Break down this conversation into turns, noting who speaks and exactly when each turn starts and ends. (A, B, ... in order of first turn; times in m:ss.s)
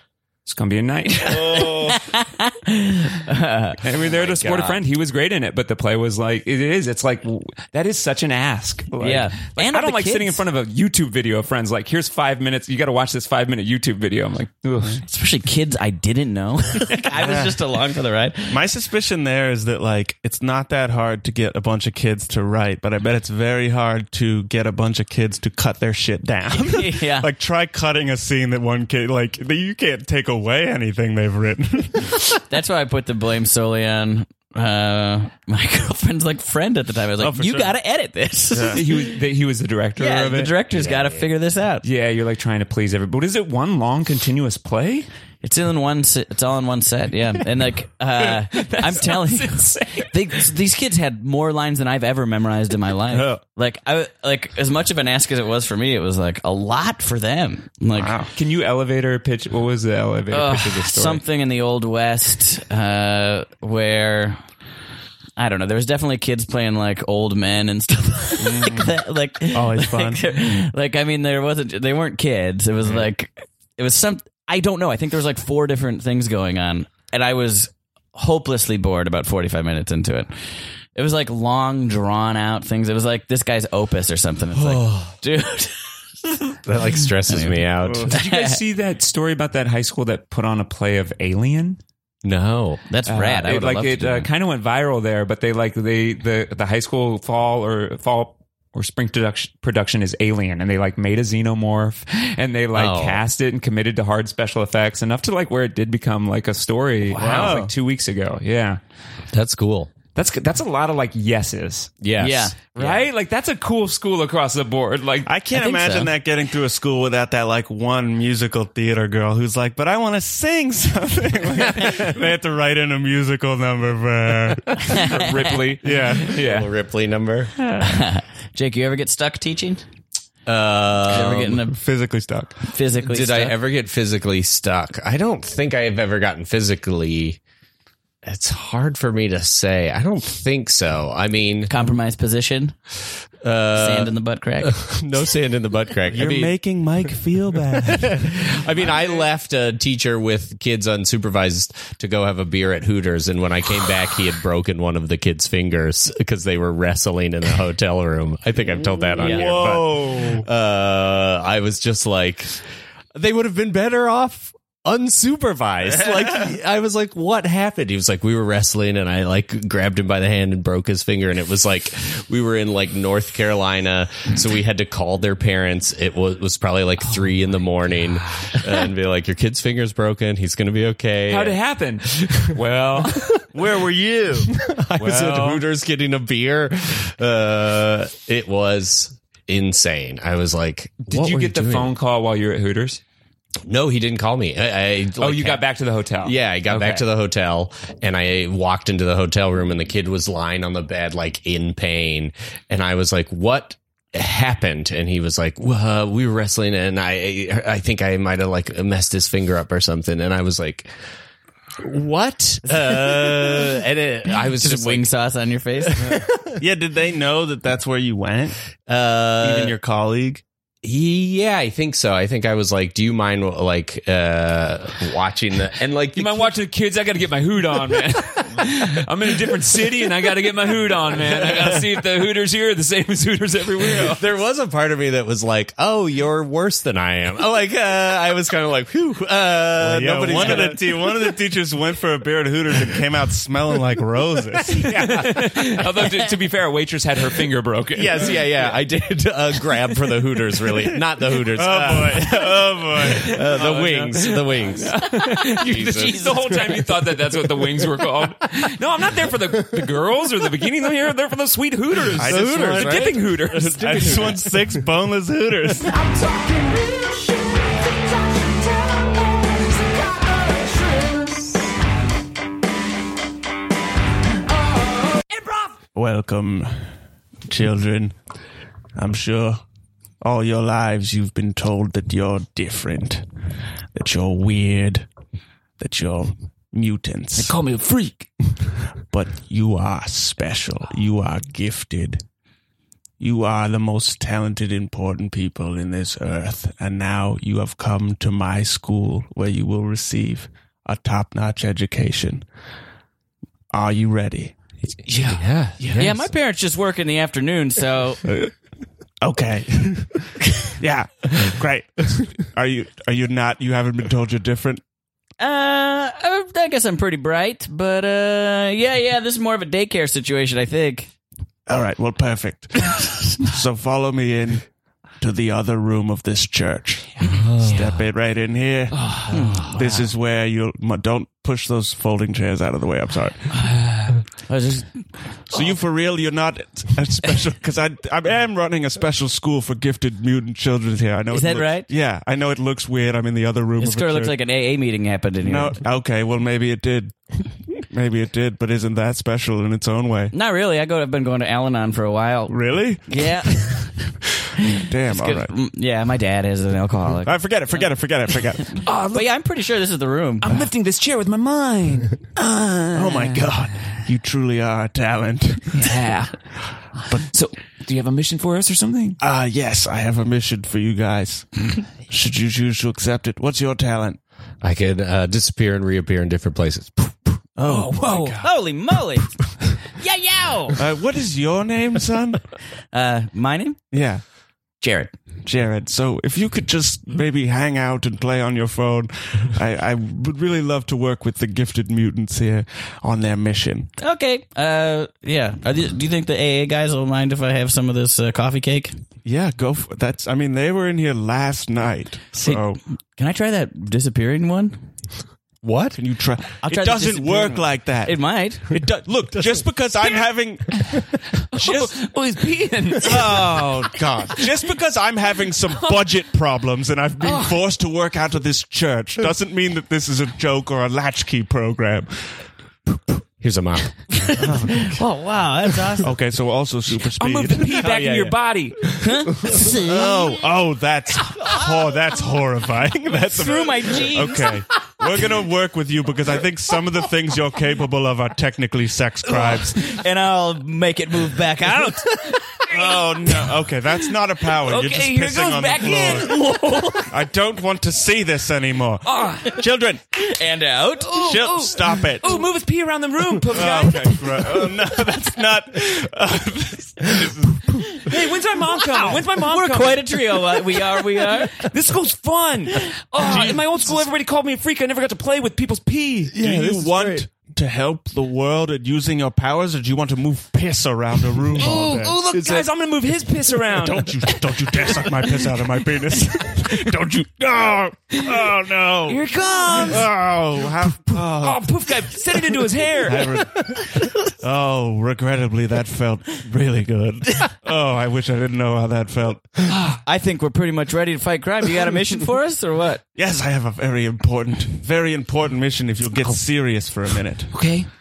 0:00.5-0:01.9 A
0:01.4-0:01.9 B
0:01.4-0:03.8 C
0:03.8-0:15.0 A
0:04.2-0:04.8 D
0:09.0-0:10.4 C
0:15.0-0:18.6 C
0:17.2-0:17.6 B
0:18.5-0:32.4 B
0:26.6-0:27.3 C
0:32.5-0:38.8 C
0:37.2-0:37.7 B
0:38.5-0:38.8 B
0:38.7-0:40.6 A
0:40.0-0:41.8 C
0:40.7-0:41.2 D
0:41.8-0:45.1 A
0:45.4-0:58.2 C
0:48.3-0:50.1 A
0:53.1-0:53.4 B
0:58.0-0:58.3 B
0:58.3-1:01.2 A
1:00.3-1:04.4 C
1:05.4-1:20.3 C
1:08.4-1:09.0 B
1:09.5-1:10.3 B
1:21.0-1:28.6 C
1:24.5-1:25.2 D
1:26.6-1:28.1 D
1:28.0-1:31.8 A
1:32.2-1:32.8 D
1:32.9-1:34.3 C
1:33.1-1:48.8 A
1:42.7-1:43.2 D
1:47.1-1:47.7 B
1:49.3-1:49.9 D
1:50.2-1:51.9 A
1:52.0-1:53.1 D
1:52.2-1:52.6 C
1:52.7-1:55.3 A
1:55.3-2:05.1 B
1:55.5-1:56.1 C
2:04.9-2:06.7 A
2:05.8-2:06.4 B
2:06.3-2:07.5 D
2:07.8-2:09.8 C
2:10.5-2:11.6 D
2:11.1-2:11.8 C
2:11.6-2:12.7 B
2:12.7-2:13.6 C
2:13.0-2:17.4 D
2:18.2-2:21.7 D
2:21.7-2:22.8 C
2:23.4-2:26.6 D
2:23.8-2:24.8 C
2:26.1-2:28.5 B
2:27.8-2:42.6 D
2:39.2-2:40.5 B
2:43.1-3:01.6 D
3:01.3-3:03.4 A
3:03.3-3:11.9 D
3:05.0-3:05.6 A
3:11.1-3:13.0 A
3:13.7-3:15.6 D
3:15.2-3:17.0 A
3:16.2-3:30.9 D
3:31.8-3:35.1 D
3:33.3-3:33.7 C
3:34.3-3:36.1 C
3:36.0-3:36.5 D
3:36.0-3:38.6 B
3:38.9-3:39.8 D
3:39.4-3:40.4 B
3:40.8-3:46.5 D
3:46.2-3:54.2 A
3:51.3-3:51.8 D
3:53.8-4:01.4 D
3:59.8-4:05.0 B
4:04.7-4:05.6 D
4:04.8-4:08.7 A
4:07.9-4:17.7 D
4:11.5-4:13.4 B
4:13.0-4:24.4 A
4:15.2-4:16.5 C
4:22.2-4:25.9 B
4:22.2-4:24.9 D
4:25.8-4:31.6 E
4:34.5-4:35.7 E
4:35.9-4:36.8 B
4:37.5-4:38.2 B
4:39.0-4:39.6 B
4:40.2-4:43.3 B
4:44.0-4:45.1 B
4:45.8-4:47.6 B
4:47.4-4:48.3 A
4:49.0-4:52.2 B
4:53.2-5:02.4 B
5:03.7-5:04.6 B
5:05.1-5:06.0 A
5:05.2-5:06.2 D
5:06.0-5:08.2 C
5:08.3-5:08.5 B
5:09.2-5:14.8 B
5:15.4-5:21.1 C
5:21.7-5:24.7 B
5:25.2-5:33.5 B
5:27.3-5:28.0 D
5:28.9-5:29.8 A
5:29.3-5:29.8 C
5:33.8-5:34.1 A
5:34.3-5:35.1 C
5:35.5-5:44.4 B
5:41.3-5:41.9 C
5:43.8-5:45.8 C
5:45.4-5:50.3 B
5:50.3-5:54.0 C
5:52.5-5:53.9 B
5:54.8-5:55.5 B
5:55.1-5:57.4 C
5:57.2-5:58.8 B
5:58.8-5:59.3 A
5:59.1-6:00.5 C
6:00.4-6:03.5 A
6:02.9-6:05.9 B
6:05.8-6:09.2 A
6:09.2-6:14.2 B
6:14.6-6:17.4 D
6:17.6-6:18.5 B
6:17.6-6:18.4 A
6:18.4-6:20.8 C
6:20.8-6:22.5 B
6:22.9-6:23.8 C
6:23.9-6:24.2 B
6:24.8-6:25.1 C
6:25.4-6:33.9 B
6:34.0-6:39.0 C
6:39.2-6:42.8 B
6:42.3-6:44.8 C
6:45.6-6:46.0 D
6:45.9-6:52.0 B
6:46.6-6:48.7 C
6:51.4-6:53.7 A
6:53.0-7:03.0 B
6:55.8-6:56.1 A
6:57.2-6:57.6 A
7:03.4-7:04.5 D
7:04.4-7:05.0 B
7:04.4-7:06.1 C
7:06.0-7:07.9 B
7:07.2-7:08.9 A
7:07.7-7:08.4 D
7:09.0-7:10.4 C
7:09.5-7:20.0 B
7:13.3-7:14.6 C
7:19.8-7:22.6 C
7:21.9-7:23.0 A
7:22.7-7:26.4 B
7:24.6-7:27.0 A
7:26.6-7:27.0 C
7:27.1-7:30.0 B
7:29.0-7:29.6 A
7:30.2-7:31.2 C
7:31.0-7:34.6 A
7:31.1-7:32.4 B
7:33.5-7:38.2 B
7:37.9-7:40.8 A
7:39.0-7:39.2 B
7:39.4-7:41.7 C
7:41.5-7:46.4 A
7:43.2-7:43.6 B
7:46.3-7:47.3 D
7:46.3-7:52.2 B
7:51.6-7:55.0 A
7:51.7-7:52.7 D
7:53.7-8:01.9 B
7:58.2-7:58.5 A
7:59.1-8:00.1 A
8:00.8-8:03.5 A
8:03.0-8:09.7 B
8:09.7-8:10.0 A
8:10.0-8:13.0 C
8:13.2-8:17.6 B
8:17.5-8:17.9 A